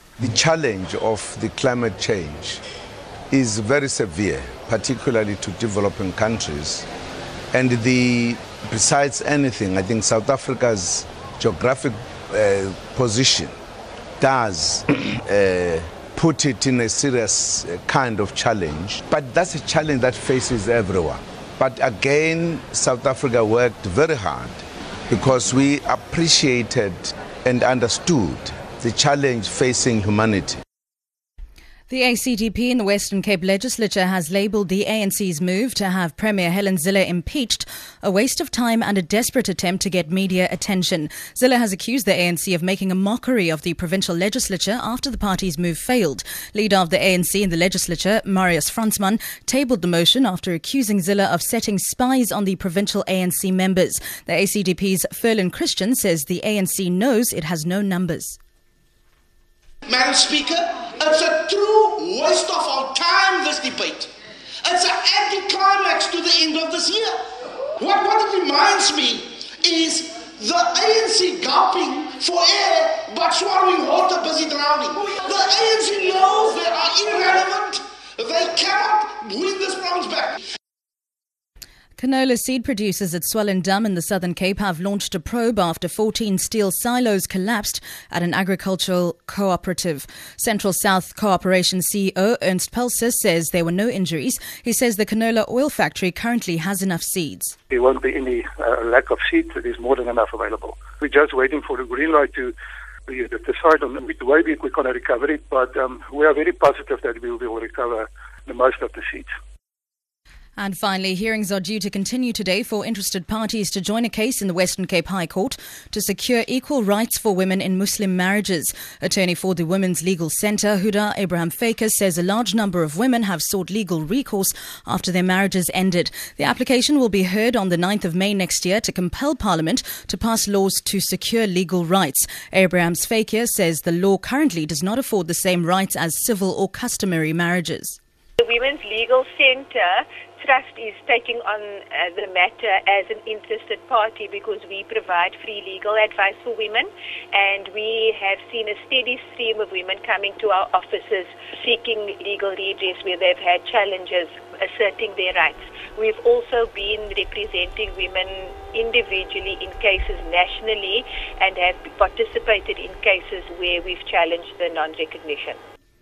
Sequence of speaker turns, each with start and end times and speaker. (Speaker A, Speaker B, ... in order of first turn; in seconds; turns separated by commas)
Speaker A: 0.2-2.6, Speaker A: 3.3-6.9, Speaker A: 7.5-13.6, Speaker A: 14.2-30.6, Speaker B: 31.9-58.4, Speaker C: 59.9-64.1, Speaker C: 64.6-67.2, Speaker C: 67.8-80.4, Speaker B: 82.0-97.5, Speaker D: 97.7-102.5, Speaker D: 103.1-109.3, Speaker B: 110.6-138.0, Speaker E: 138.4-165.6